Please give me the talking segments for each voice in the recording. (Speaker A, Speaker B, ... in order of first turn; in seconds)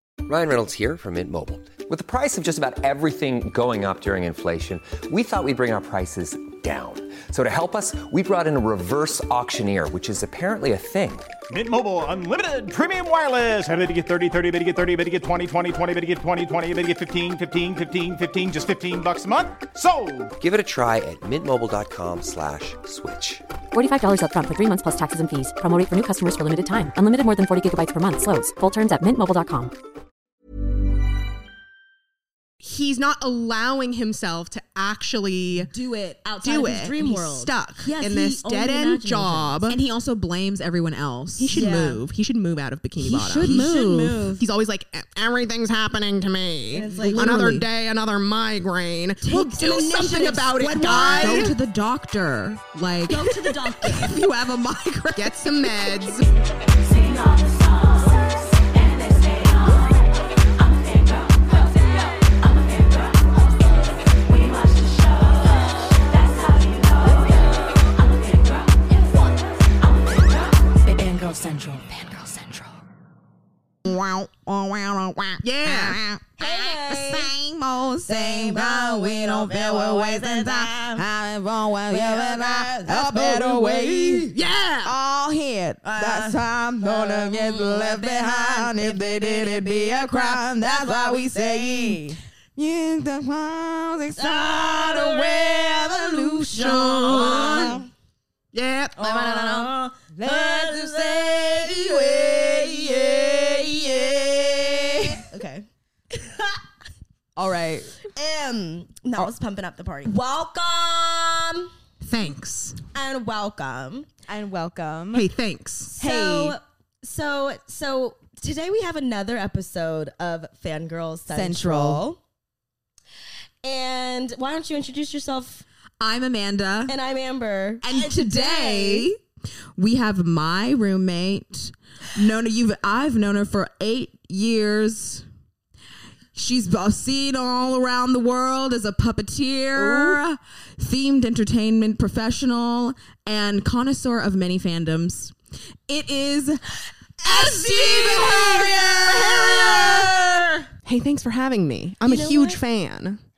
Speaker A: 0.2-11.3, 20.4-23.4
Speaker B: 11.5-20.3
Speaker C: 23.7-29.7
Speaker D: 32.6-35.7, 36.4-39.8, 41.4-43.7, 44.4-51.5, 55.1-56.3, 75.4-76.0, 84.3-84.9, 96.6-97.7, 98.5-99.7, 112.0-112.8, 115.1-116.0, 147.5-150.1, 150.8-153.2
Speaker E: 35.5-36.2, 39.7-41.9, 43.0-44.4, 46.9-47.7, 49.8-55.7, 70.8-72.7, 73.8-84.3, 84.8-97.8, 100.1-105.2, 107.3-107.9, 114.3-115.3, 116.0-116.6, 121.3-122.0, 126.0-126.9, 127.8-129.2, 129.8-135.2, 136.3-145.3, 145.9-150.4
Speaker F: 36.2-39.6, 41.5-42.0, 43.4-44.4, 46.7-47.3, 49.2-51.5, 53.1-54.1, 76.4-77.3, 78.1-81.0, 81.9-84.3, 85.8-92.1, 94.1-97.9, 99.0-106.6, 108.1-111.7, 112.9-114.2, 116.0-122.2, 123.6-125.6, 126.8-129.1, 139.8-140.2, 147.2-150.4, 152.0-152.6